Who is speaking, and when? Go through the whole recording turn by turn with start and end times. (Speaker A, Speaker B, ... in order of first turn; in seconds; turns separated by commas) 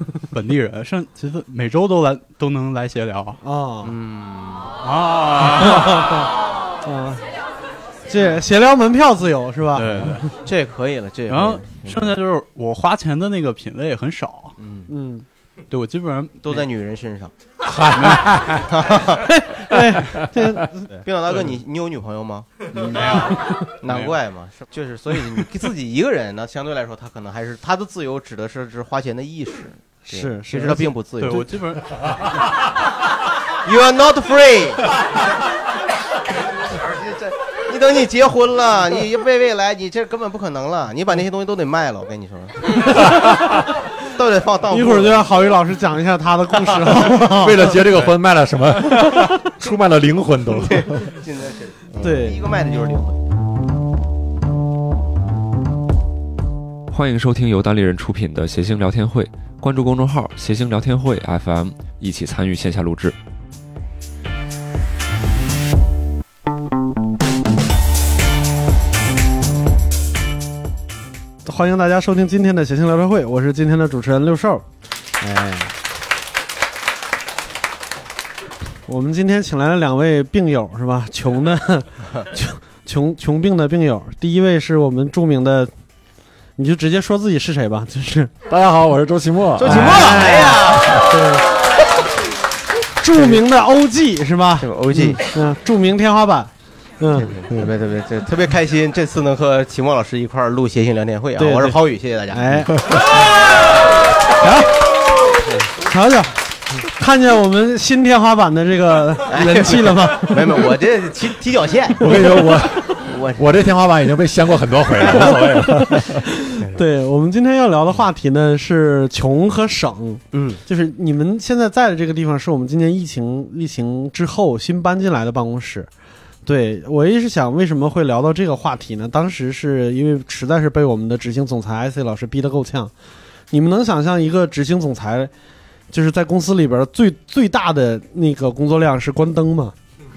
Speaker A: 0.3-3.4, Speaker B: 3.4-3.9, Speaker C: 3.8-4.8, Speaker A: 4.8-6.2, Speaker B: 5.8-6.2, Speaker B: 6.8-7.2, Speaker B: 8.1-10.1, Speaker A: 9.7-10.3, Speaker C: 10.4-12.2, Speaker A: 11.3-14.5, Speaker C: 14.6-14.9, Speaker B: 14.9-15.2, Speaker A: 15.7-16.7, Speaker C: 16.4-17.3, Speaker D: 17.6-18.7, Speaker A: 17.9-18.3, Speaker C: 18.7-19.3, Speaker B: 19.3-21.0, Speaker D: 19.9-20.5, Speaker C: 21.1-22.6, Speaker A: 22.7-24.2, Speaker C: 23.8-31.5, Speaker B: 30.1-30.9, Speaker A: 31.2-32.5, Speaker C: 33.6-34.9, Speaker C: 36.7-43.3, Speaker D: 43.1-43.5, Speaker C: 44.0-45.3, Speaker B: 44.7-47.6, Speaker D: 46.9-51.1, Speaker C: 50.6-53.2, Speaker B: 52.0-52.4, Speaker E: 56.9-63.1, Speaker B: 71.5-74.7, Speaker B: 75.2-75.7, Speaker B: 78.9-85.7, Speaker B: 86.6-88.3, Speaker D: 88.5-90.7, Speaker C: 89.6-91.1, Speaker B: 89.7-91.4, Speaker B: 93.0-97.7, Speaker C: 93.2-93.4, Speaker C: 94.6-95.2, Speaker C: 97.2-102.7, Speaker B: 101.4-101.8, Speaker B: 102.3-102.7, Speaker B: 104.4-104.8, Speaker B: 105.8-106.3, Speaker B: 107.0-110.6, Speaker C: 109.3-112.1, Speaker D: 112.0-116.3, Speaker C: 113.0-113.5, Speaker B: 115.7-125.9, Speaker C: 120.3-120.6, Speaker B: 126.5-132.9, Speaker B: 133.5-135.3, Speaker B: 135.9-139.8